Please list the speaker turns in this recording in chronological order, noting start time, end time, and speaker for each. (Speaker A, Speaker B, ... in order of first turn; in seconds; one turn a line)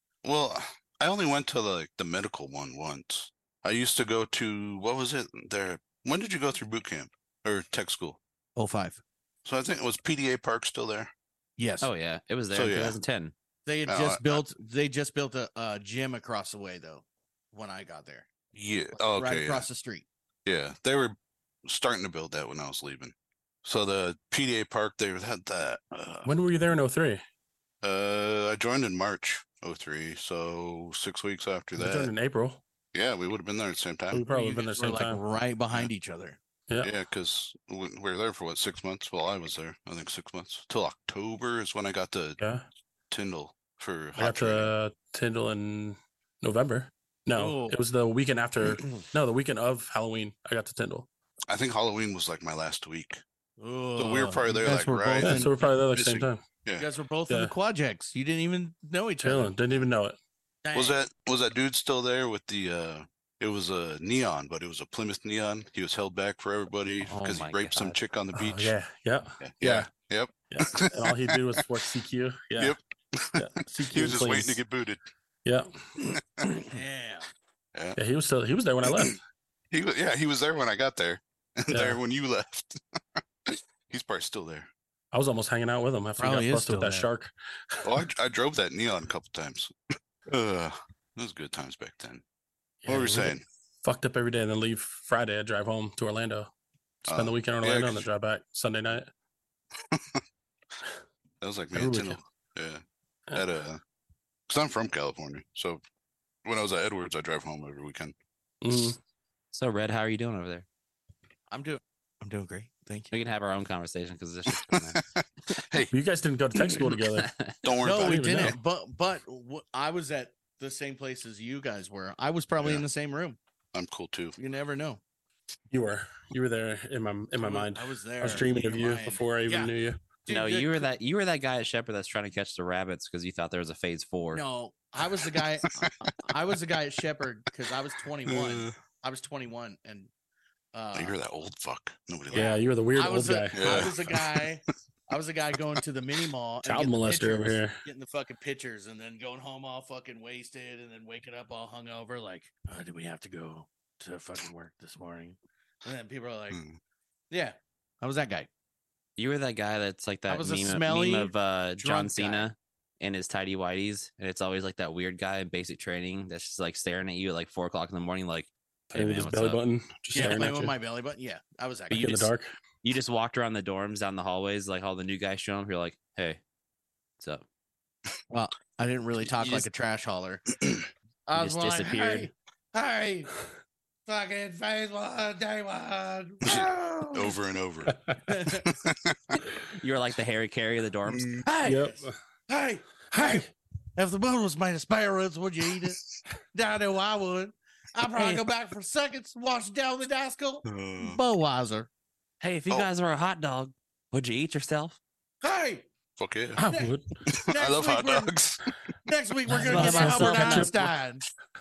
Speaker A: 0.2-8.2
Speaker B: 8.6-9.0
Speaker A: 9.4-11.1
Speaker B: 11.6-11.9
Speaker C: 11.8-13.3
Speaker A: 12.5-13.0
Speaker B: 13.7-18.3
Speaker A: 13.9-14.4
Speaker A: 18.5-19.7
Speaker B: 19.0-20.1
Speaker A: 20.5-26.3
Speaker D: 26.2-27.2
Speaker A: 27.8-32.1
Speaker D: 31.8-32.6
Speaker A: 32.9-34.2
Speaker D: 34.1-35.2
Speaker B: 34.3-36.4
Speaker A: 36.8-42.4
Speaker D: 42.4-42.6
Speaker A: 43.1-44.7
Speaker D: 44.2-51.1
Speaker B: 47.4-47.8
Speaker A: 51.5-53.2
Speaker B: 53.6-55.6
Speaker A: 54.0-56.9
Speaker D: 55.2-56.4
Speaker B: 56.8-59.5
Speaker D: 59.2-60.2
Speaker B: 60.6-61.0
Speaker A: 60.7-68.7
Speaker C: 67.1-68.0
Speaker D: 68.3-69.9
Speaker A: 69.4-71.6
Speaker D: 70.5-72.8
Speaker A: 72.6-75.0
Speaker D: 73.4-74.6
Speaker D: 75.5-75.7
Speaker B: 76.7-77.3
Speaker D: 78.0-79.2
Speaker A: 78.8-79.2
Speaker A: 79.7-84.7
Speaker D: 81.7-82.0
Speaker D: 85.1-87.9
Speaker B: 86.2-87.1
Speaker A: 87.8-89.7
Speaker A: 90.3-92.2
Speaker D: 92.8-96.5
Speaker A: 92.9-93.4
Speaker A: 97.1-98.1
Speaker D: 97.1-99.1
Speaker A: 99.9-100.2
Speaker A: 101.4-103.8
Speaker D: 101.8-102.2
Speaker A: 104.5-105.8
Speaker A: 106.5-108.2
Speaker D: 108.6-109.0
Speaker C: 109.5-110.7
Speaker B: 111.5-113.1
Speaker C: 113.1-115.0
Speaker A: 114.5-115.9
Speaker D: 115.9-117.3
Speaker C: 117.1-117.6
Speaker A: 117.6-118.5
Speaker B: 117.8-123.4
Speaker D: 117.8-118.6
Speaker A: 122.6-122.9
Speaker A: 123.7-124.4
Speaker B: 124.4-125.0
Speaker D: 125.7-130.0
Speaker B: 127.4-129.7
Speaker B: 130.3-130.9
Speaker C: 130.3-134.4
Speaker B: 134.3-140.1
Speaker A: 138.3-138.8
Speaker B: 140.7-141.2
Speaker A: 140.9-142.6
Speaker B: 142.3-156.6
Speaker D: 142.3-143.9
Speaker A: 143.6-144.5
Speaker D: 146.7-147.8
Speaker A: 156.5-156.8
Speaker B: 157.3-158.5
Speaker C: 159.2-169.6
Speaker B: 160.3-162.5
Speaker D: 168.9-170.7
Speaker B: 170.1-172.3
Speaker C: 170.2-170.4
Speaker C: 171.9-172.3
Speaker D: 171.9-172.5
Speaker C: 172.8-176.4
Speaker C: 177.2-177.4
Speaker B: 178.3-180.7
Speaker C: 179.3-179.7
Speaker B: 181.3-183.3
Speaker C: 181.4-182.3
Speaker B: 184.1-187.4
Speaker A: 186.4-187.9
Speaker D: 187.9-188.2
Speaker B: 188.3-188.7
Speaker A: 188.5-189.4
Speaker C: 189.7-191.3
Speaker A: 191.1-191.5
Speaker B: 191.4-196.0
Speaker D: 191.6-192.2
Speaker D: 193.1-193.5
Speaker B: 196.5-201.9
Speaker C: 198.2-198.4
Speaker A: 200.7-201.2
Speaker C: 202.4-205.0
Speaker B: 205.4-205.9
Speaker A: 206.2-206.6
Speaker D: 206.6-207.1
Speaker B: 206.7-208.3
Speaker A: 207.3-208.8
Speaker B: 209.1-211.3
Speaker D: 209.5-210.9
Speaker C: 209.5-210.8